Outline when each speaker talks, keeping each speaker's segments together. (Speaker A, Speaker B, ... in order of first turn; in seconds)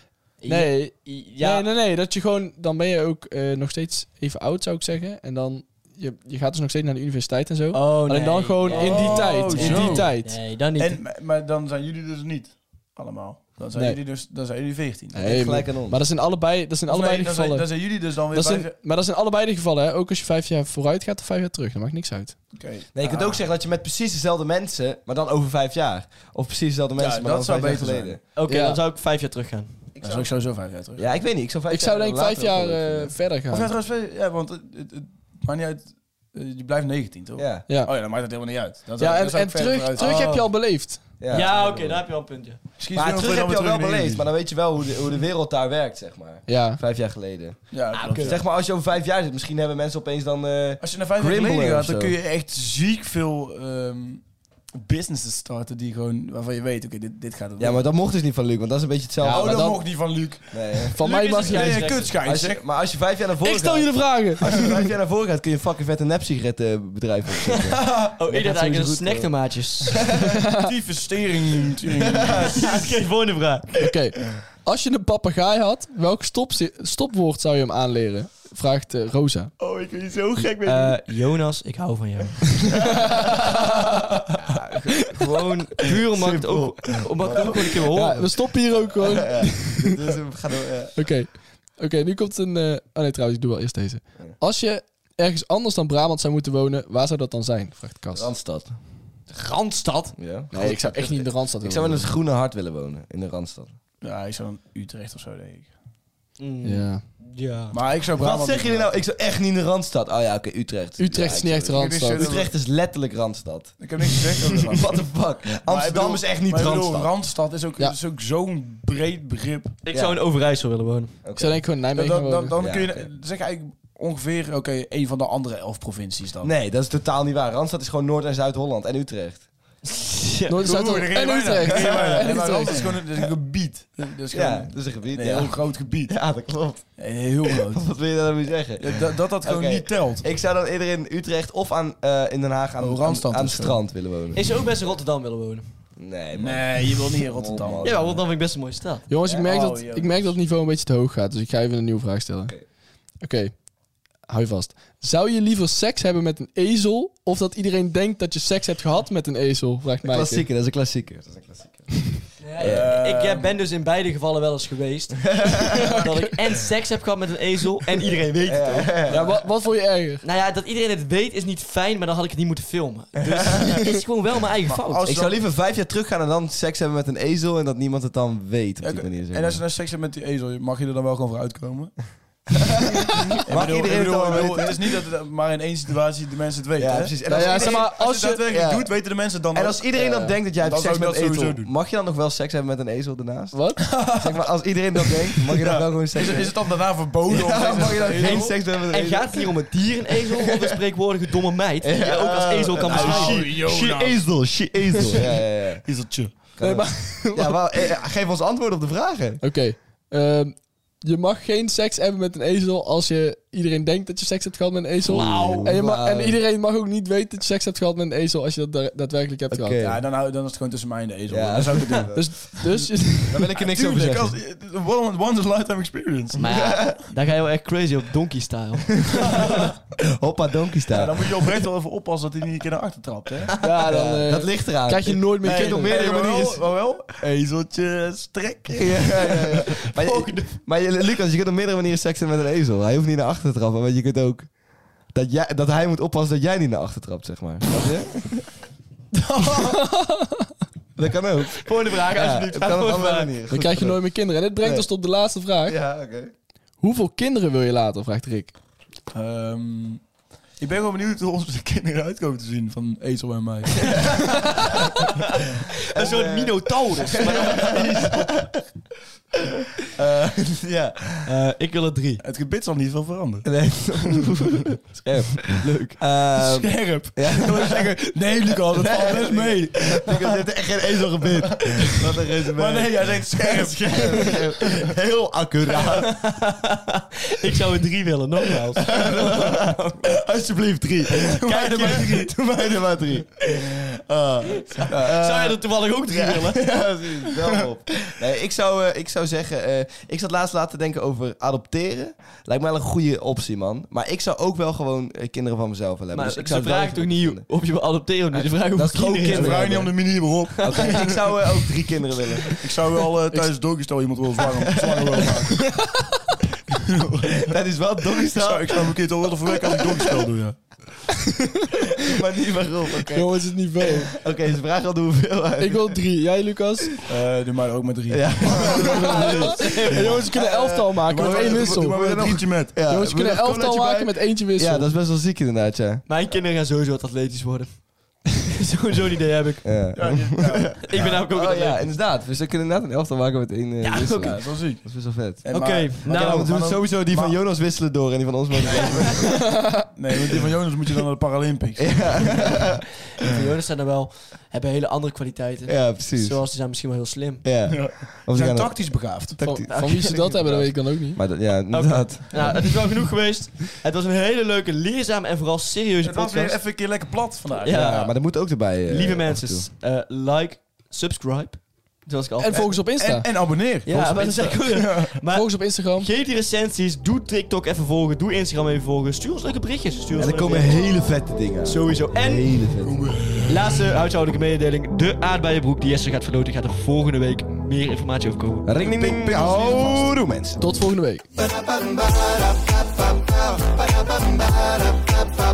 Speaker A: 0.4-1.7, 7.7-11.0, 28.3-29.8, 40.0-40.6, 41.3-42.6, 47.9-48.4, 61.0-62.2, 68.2-70.1, 72.5-73.9, 80.4-82.8, 85.2-88.4, 99.3-100.1, 106.4-107.8, 119.8-121.2, 129.8-130.9, 144.3-145.7, 147.8-149.1, 162.4-169.1, 170.2-175.1, 197.5-203.6, 226.4-229.6, 239.8-240.6, 251.6-253.3, 263.9-268.2, 271.2-272.2, 275.5-276.0, 285.9-290.2, 291.6-292.1, 294.4-296.7, 306.1-311.1, 329.6-330.3, 336.1-339.9, 340.8-341.9, 343.8-344.7, 345.5-346.6, 348.7-349.2, 353.2-357.6, 359.7-360.2, 361.7-366.6, 367.6-372.8, 373.9-381.1, 381.6-382.7, 383.5-390.0
Speaker B: 0.5-10.4, 13.7-14.0, 15.2-22.4, 28.5-28.8, 31.7-33.7, 37.7-37.9, 39.0-41.0, 46.5-46.8, 59.2-59.8, 61.0-61.9, 63.4-64.5, 73.8-79.5, 83.1-84.1, 87.9-90.0, 91.0-98.3, 100.5-102.2, 106.6-107.0, 111.0-112.4, 121.4-122.6, 130.5-132.8, 149.1-152.6, 153.2-153.7, 154.2-160.5, 165.7-166.3, 169.1-170.2, 187.3-188.5, 193.5-193.9, 206.6-207.6, 209.4-219.8, 222.1-223.5, 233.6-236.0, 249.4-250.5, 253.5-255.8, 256.8-258.5, 315.6-316.0, 321.2-321.9, 323.1-324.1, 325.6-326.9, 328.8-332.2, 332.8-334.9, 349.5-349.8, 359.4-361.2, 372.4-373.3, 375.3-376.1, 390.6-391.3
Speaker C: 8.7-10.2, 10.8-15.3, 16.9-18.8, 22.5-23.4, 27.0-28.2, 30.0-31.2, 33.5-40.4, 42.8-44.3, 47.7-48.4, 50.8-57.9, 59.3-62.6, 64.5-64.8, 67.7-68.5, 70.5-72.9, 104.0-105.8, 107.7-108.9, 111.6-112.5, 113.8-115.0, 115.5-119.8, 121.9-126.5, 130.6-136.2, 137.0-137.9, 138.8-140.3, 142.8-143.8, 146.3-147.9, 149.4-150.4, 162.6-163.5, 165.8-166.3, 169.1-169.4, 174.7-175.4, 178.8-182.5, 183.1-191.7, 193.8-194.5, 195.0-198.6, 202.8-204.5, 205.8-206.4, 215.2-215.7, 219.8-222.3, 223.6-226.7, 230.9-233.5, 235.4-239.7, 249.1-249.8, 259.1-260.0, 260.6-264.7, 267.8-268.1, 272.2-274.3, 276.4-280.4, 281.2-284.9, 291.1-292.3, 294.9-295.2, 297.3-297.7, 309.2-311.3, 312.5-315.7, 316.7-317.6, 318.2-320.6, 327.1-330.3, 331.1-332.8, 339.9-341.2, 344.2-344.9, 345.4-347.4, 348.6-352.6, 357.7-359.5, 366.0-368.1, 372.9-375.2, 382.9-383.6, 389.0-389.9
Speaker D: 15.2-16.0, 22.9-28.2, 30.0-30.3, 31.0-33.2, 37.4-37.7, 41.2-42.1, 42.9-52.2, 57.6-59.8, 60.5-60.9, 62.2-69.4, 72.3-72.6, 79.6-81.0, 84.4-85.3, 86.0-88.1, 88.8-91.0, 98.1-98.8, 100.2-103.8, 108.2-113.8, 114.6-117.1, 119.9-120.2, 121.2-121.6, 122.6-123.1, 126.4-129.5, 134.3-144.4, 146.0-148.3, 160.0-162.9, 165.3-165.9, 168.5-169.2, 173.3-173.7, 175.0-179.6, 183.5-184.8, 186.8-196.6, 197.3-199.5, 200.4-200.7, 201.8-205.8, 206.3-209.4, 215.1-216.4, 219.5-220.0, 221.3-222.4, 223.3-224.4, 226.5-227.0, 229.1-231.6, 233.9-236.7, 238.8-244.5, 245.1-248.5, 251.0-254.9, 255.7-256.3, 265.9-268.5, 269.9-271.3, 273.4-277.9, 278.7-286.2, 288.8-307.4, 308.4-309.9, 310.6-312.6, 314.9-315.2, 317.2-319.0, 319.6-320.3, 322.0-326.0, 328.1-336.0, 339.6-349.4, 351.8-352.9, 355.7-356.5, 357.4-362.6, 367.7-369.7, 380.1-383.2, 388.6-390.6, 391.4-395.1